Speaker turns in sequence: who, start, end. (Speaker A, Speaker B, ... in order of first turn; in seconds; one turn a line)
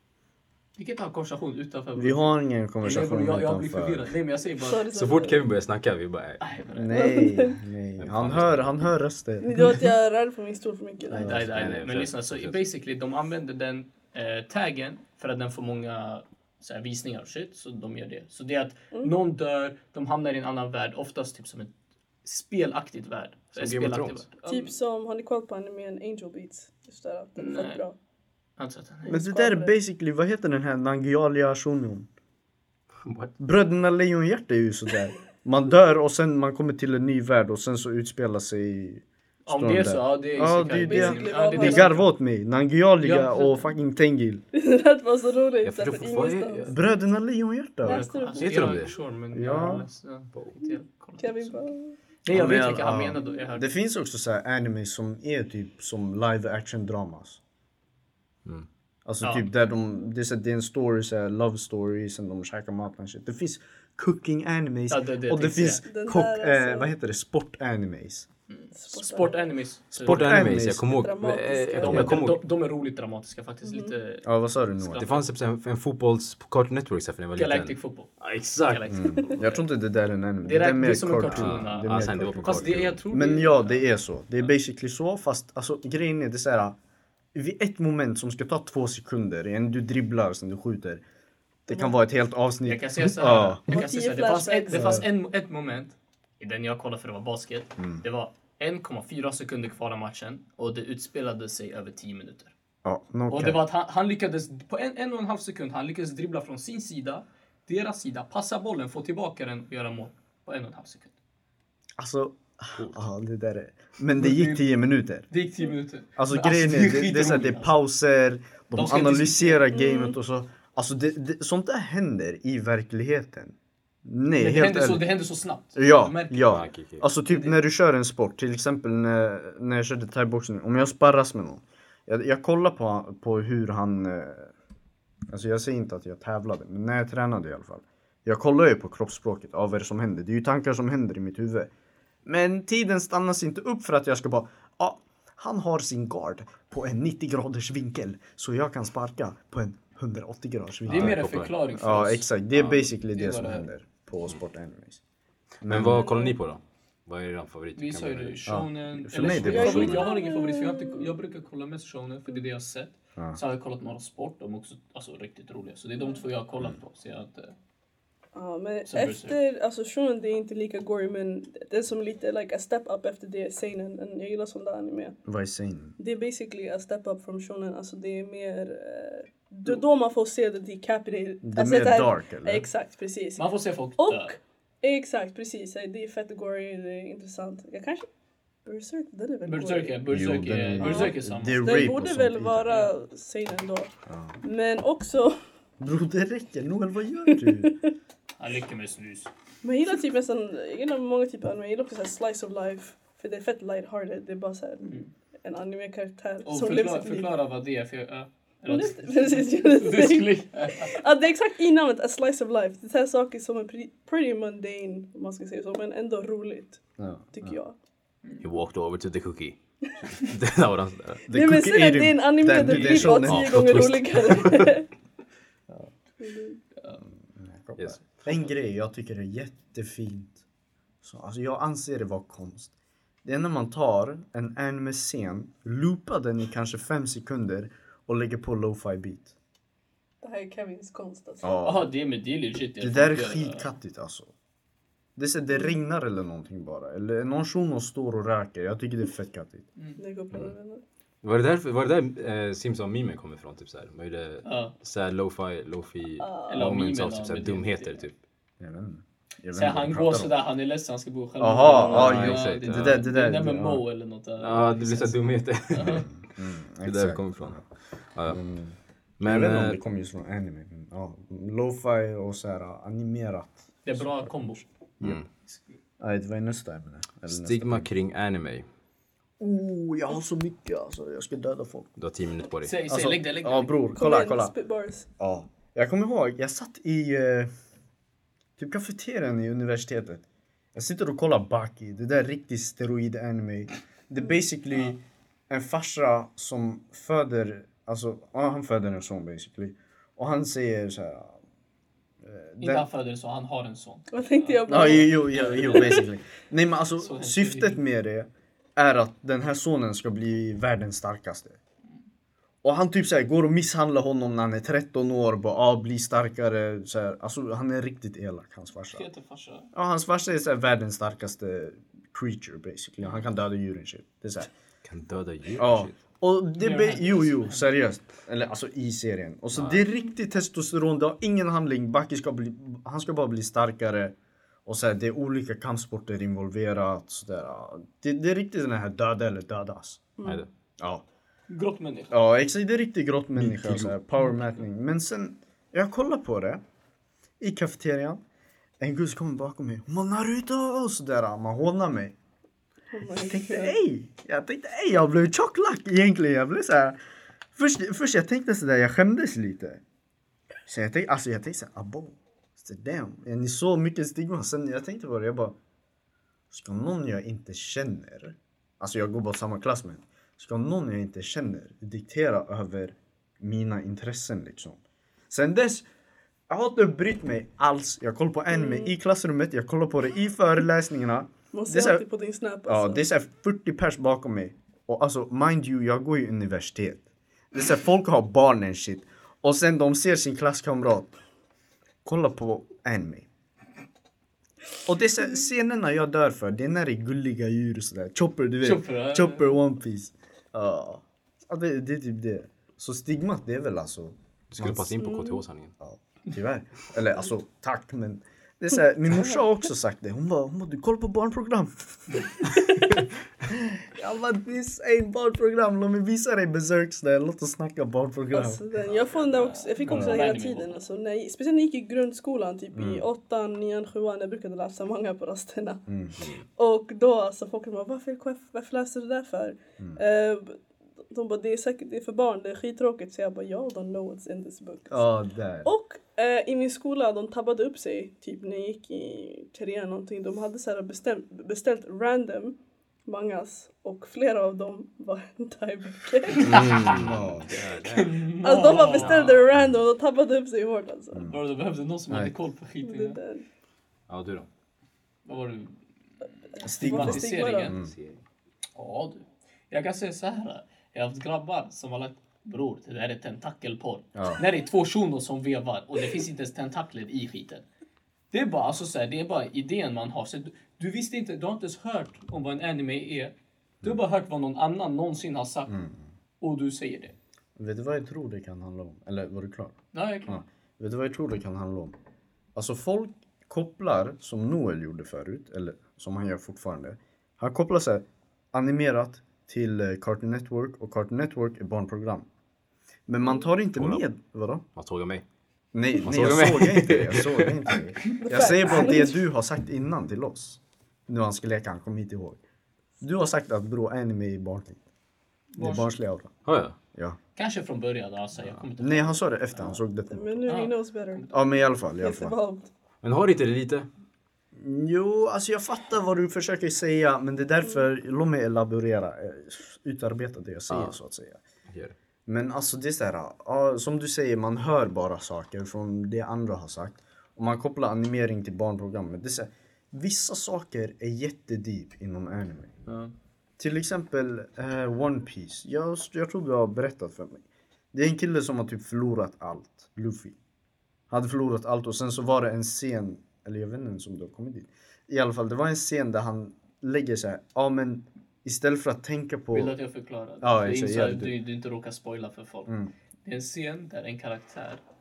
Speaker A: 0.8-4.9
Speaker B: 2.0-4.1
Speaker C: 4.6-5.5
Speaker D: 4.9-6.4
Speaker A: 6.4-7.2
Speaker B: 6.8-9.8
Speaker C: 6.9-7.6
Speaker D: 8.0-8.7
Speaker C: 9.4-11.3
Speaker B: 11.1-11.6
Speaker A: 11.1-21.7
Speaker D: 11.3-12.6
Speaker A: 22.2-24.8
Speaker D: 23.6-24.2
Speaker C: 24.5-28.0
Speaker A: 27.4-27.8
Speaker A: 28.6-29.2
Speaker B: 29.1-32.1
Speaker C: 29.1-29.7
Speaker D: 33.0-33.3
Speaker B: 33.4-44.4
Speaker A: 39.5-42.1
Speaker C: 40.7-41.9
Speaker A: 43.0-43.7
Speaker C: 44.5-46.8
Speaker D: 45.6-46.8
Speaker B: 46.7-48.1
Speaker C: 47.8-48.9
Speaker A: 47.9-51.7
Speaker D: 48.4-48.9
Speaker B: 49.3-49.9
Speaker C: 51.2-52.0
Speaker A: 52.2-53.7
Speaker B: 52.3-57.4
Speaker B: 59.1-68.3
Speaker A: 59.2-59.5
Speaker A: 64.9-65.8
Speaker C: 65.8-66.9
Speaker A: 68.5-70.4
Speaker C: 68.7-69.4
Speaker B: 69.9-71.0
Speaker D: 70.0-72.4
Speaker C: 70.8-72.2
Speaker A: 71.8-74.3
Speaker B: 71.8-72.2
Speaker C: 73.7-73.9
Speaker B: 74.2-75.1
Speaker A: 74.8-75.3
Speaker D: 75.0-78.9
Speaker A: 77.3-78.1
Speaker A: 78.7-79.6
Speaker B: 78.9-86.8
Speaker A: 80.4-83.8
Speaker D: 81.3-83.0
Speaker B: 87.3-91.0
Speaker B: 91.7-93.6
Speaker A: 92.7-102.5
Speaker C: 93.7-95.0
Speaker B: 94.7-95.0
Speaker B: 97.8-98.0
Speaker B: 102.8-103.6
Speaker A: 103.3-111.1
Speaker B: 112.0-115.3
Speaker A: 114.2-114.6
Speaker A: 115.3-117.7
Speaker B: 116.2-125.1
Speaker A: 118.7-119.7
Speaker C: 119.7-120.2
Speaker A: 124.4-126.7
Speaker B: 125.8-134.5
Speaker D: 126.5-127.0
Speaker A: 127.3-127.5
Speaker B: 135.3-141.7
Speaker B: 142.2-151.2
Speaker D: 150.9-151.5
Speaker A: 150.9-152.3
Speaker B: 151.8-155.0
Speaker A: 153.1-153.7
Speaker B: 155.6-156.1
Speaker D: 155.6-158.5
Speaker C: 156.0-156.3
Speaker A: 157.8-167.6
Speaker B: 158.5-160.1
Speaker D: 159.2-160.1
Speaker C: 159.4-161.1
Speaker C: 168.3-175.2
Speaker A: 168.9-169.4
Speaker B: 175.3-176.0
Speaker C: 176.0-183.5
Speaker B: 181.4-182.7
Speaker A: 183.4-184.4
Speaker C: 184.0-188.1
Speaker C: 188.7-190.0
Speaker A: 189.4-191.9
Speaker B: 190.1-192.8
Speaker C: 190.8-195.4
Speaker B: 194.1-194.4
Speaker B: 195.8-197.7
Speaker C: 197.3-197.9
Speaker A: 198.4-199.3
Speaker C: 199.6-204.9
Speaker A: 204.8-205.1
Speaker C: 205.4-207.3
Speaker A: 206.4-211.0
Speaker C: 208.7-216.8
Speaker B: 217.0-217.6
Speaker C: 217.3-217.8
Speaker D: 218.4-221.3
Speaker B: 221.3-223.8
Speaker C: 221.3-224.9
Speaker D: 222.5-224.8
Speaker C: 226.2-226.6
Speaker B: 227.0-230.4
Speaker B: 231.0-232.7
Speaker B: 233.2-239.3
Speaker C: 240.2-241.6
Speaker B: 241.4-241.9
Speaker A: 241.6-243.7
Speaker B: 242.8-244.3
Speaker B: 245.2-249.7
Speaker C: 250.0-250.8
Speaker D: 251.2-258.2
Speaker A: 254.4-254.7
Speaker C: 256.2-256.7
Speaker A: 256.5-258.0
Speaker B: 258.6-260.4
Speaker A: 259.5-266.1
Speaker B: 261.4-263.8
Speaker D: 261.8-263.0
Speaker D: 264.4-266.2
Speaker B: 266.3-267.6
Speaker D: 266.8-267.6
Speaker D: 268.1-268.4
Speaker B: 268.3-274.3
Speaker D: 269.2-269.8
Speaker A: 273.9-274.6
Speaker D: 275.0-275.3
Speaker A: 275.4-275.8
Speaker B: 276.0-277.9
Speaker D: 277.3-278.6
Speaker B: 279.4-281.9
Speaker D: 282.0-282.8
Speaker A: 282.6-283.8
Speaker B: 282.9-284.5
Speaker C: 283.9-285.1
Speaker B: 285.2-287.5
Speaker B: 288.6-301.4
Speaker B: 302.2-302.9
Speaker A: 302.6-306.1
Speaker C: 304.1-306.1
Speaker B: 304.7-311.6
Speaker A: 307.0-307.8
Speaker B: 312.6-319.1
Speaker A: 318.9-319.7
Speaker B: 319.7-324.5
Speaker D: 324.8-326.0
Speaker B: 325.6-334.1
Speaker A: 326.6-327.7
Speaker D: 329.5-329.8
Speaker B: 334.7-340.1
Speaker C: 340.2-340.4
Speaker B: 340.8-341.1
Speaker A: 341.5-342.1
Speaker B: 342.1-346.6
Speaker D: 343.4-343.9
Speaker B: 347.4-348.2
Speaker B: 348.8-352.1
Speaker C: 352.9-353.8
Speaker B: 353.2-357.0
Speaker B: 357.6-359.8
Speaker B: 360.7-365.6
Speaker B: 366.5-374.8
Speaker B: 375.3-375.9
Speaker B: 376.5-382.1
Speaker C: 378.5-378.9
Speaker C: 381.5-383.0
Speaker B: 382.7-391.1
Speaker B: 392.1-393.3
Speaker B: 394.9-404.9
Speaker A: 398.6-399.6
Speaker D: 404.5-405.7
Speaker C: 405.0-405.4
Speaker B: 405.8-412.6
Speaker B: 413.4-418.6
Speaker C: 418.3-425.9
Speaker A: 419.2-420.8
Speaker B: 419.9-420.2
Speaker B: 422.7-423.1
Speaker B: 425.9-426.2
Speaker D: 426.2-426.4
Speaker C: 426.6-430.6
Speaker C: 431.1-435.1
Speaker B: 434.9-435.7
Speaker C: 435.6-446.8
Speaker A: 446.3-449.4
Speaker D: 446.4-448.3
Speaker B: 446.9-447.5
Speaker C: 448.4-451.3
Speaker B: 449.5-449.8
Speaker A: 451.2-453.2
Speaker C: 452.8-453.4
Speaker D: 454.1-454.5
Speaker A: 455.2-455.8
Speaker A: 456.5-457.7
Speaker C: 456.6-457.7
Speaker B: 456.6-457.9
Speaker D: 457.7-458.2
Speaker A: 458.8-467.6
Speaker B: 464.1-464.4
Speaker A: 468.3-475.8
Speaker B: 475.7-476.0
Speaker A: 476.4-477.1
Speaker B: 477.6-479.8
Speaker A: 479.9-480.4
Speaker B: 480.3-481.9
Speaker B: 482.6-492.3
Speaker B: 493.1-494.6
Speaker D: 493.8-494.0
Speaker D: 494.8-495.2
Speaker B: 495.7-502.4
Speaker D: 496.0-497.8
Speaker C: 498.2-499.2
Speaker B: 503.0-504.8
Speaker A: 505.5-505.9
Speaker B: 505.6-506.3
Speaker D: 506.5-506.8
Speaker A: 507.4-509.8
Speaker B: 508.8-510.5
Speaker C: 510.1-512.7
Speaker A: 510.5-511.3
Speaker B: 511.3-512.4
Speaker D: 513.0-513.9
Speaker B: 514.5-521.4
Speaker D: 520.7-521.0
Speaker D: 521.7-521.9
Speaker B: 522.3-532.7
Speaker A: 532.9-533.1
Speaker B: 533.6-540.4
Speaker B: 541.1-549.8
Speaker A: 549.5-552.7
Speaker B: 550.4-551.4
Speaker A: 553.2-554.8